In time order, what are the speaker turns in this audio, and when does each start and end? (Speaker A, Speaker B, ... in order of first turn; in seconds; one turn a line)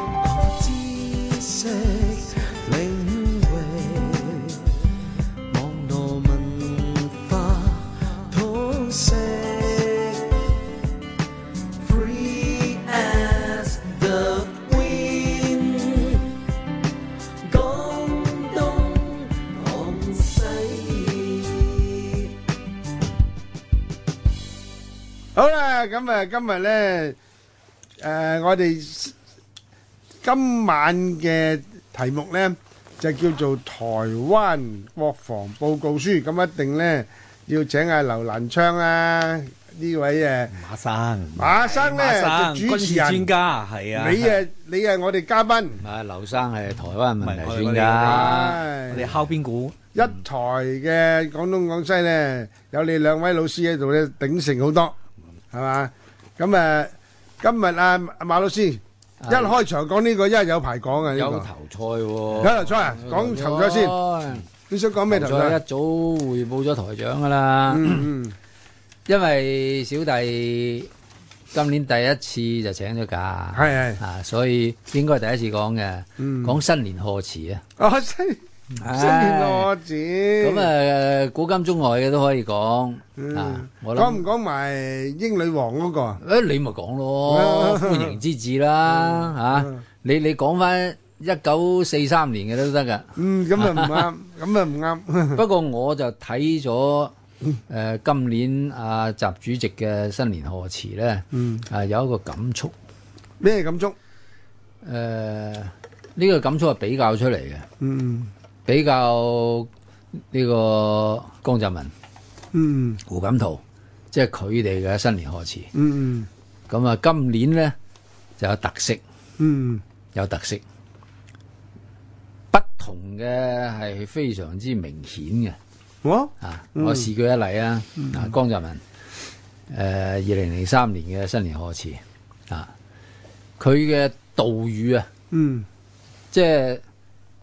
Speaker A: 0.2-4.7
Speaker A: 5.5-10.4
Speaker A: 11.8-16.4
Speaker A: 17.4-22.3
Speaker B: 25.4-27.2
Speaker B: 28.0-29.1
Speaker B: 30.2-40.6
Speaker C: 40.5-44.4
Speaker B: 41.4-43.3
Speaker B: 44.0-45.8
Speaker D: 45.8-48.6
Speaker C: 47.2-48.3
Speaker B: 48.0-49.1
Speaker C: 48.9-49.8
Speaker B: 49.9-55.0
Speaker B: 55.5-61.5
Speaker D: 59.2-59.6
Speaker D: 61.1-64.5
Speaker B: 62.4-64.0
Speaker B: 64.7-65.6
Speaker D: 65.1-68.1
Speaker B: 67.7-68.3
Speaker D: 69.1-70.9
Speaker D: 71.5-77.6
Speaker B: 73.5-74.0
Speaker B: 76.2-76.6
Speaker B: 77.8-80.7
Speaker D: 78.8-79.7
Speaker D: 80.4-84.2
Speaker B: 83.2-86.2
Speaker D: 86.2-94.1
Speaker B: 87.3-88.2
Speaker B: 93.2-95.4
Speaker D: 95.3-97.1
Speaker D: 97.7-102.7
Speaker B: 101.3-101.6
Speaker B: 103.4-104.0
Speaker D: 104.8-107.7
Speaker B: 107.8-108.3
Speaker D: 108.7-109.7
Speaker D: 110.3-111.9
Speaker B: 112.5-113.0
Speaker D: 113.1-115.7
Speaker B: 115.7-116.3
Speaker D: 116.7-117.8
Speaker D: 118.4-119.0
Speaker B: 119.4-119.8
Speaker D: 120.1-120.6
Speaker D: 122.5-125.6
Speaker B: 126.0-127.1
Speaker D: 126.4-128.8
Speaker D: 129.7-132.7
Speaker D: 133.6-135.1
Speaker B: 135.3-135.7
Speaker D: 136.3-136.8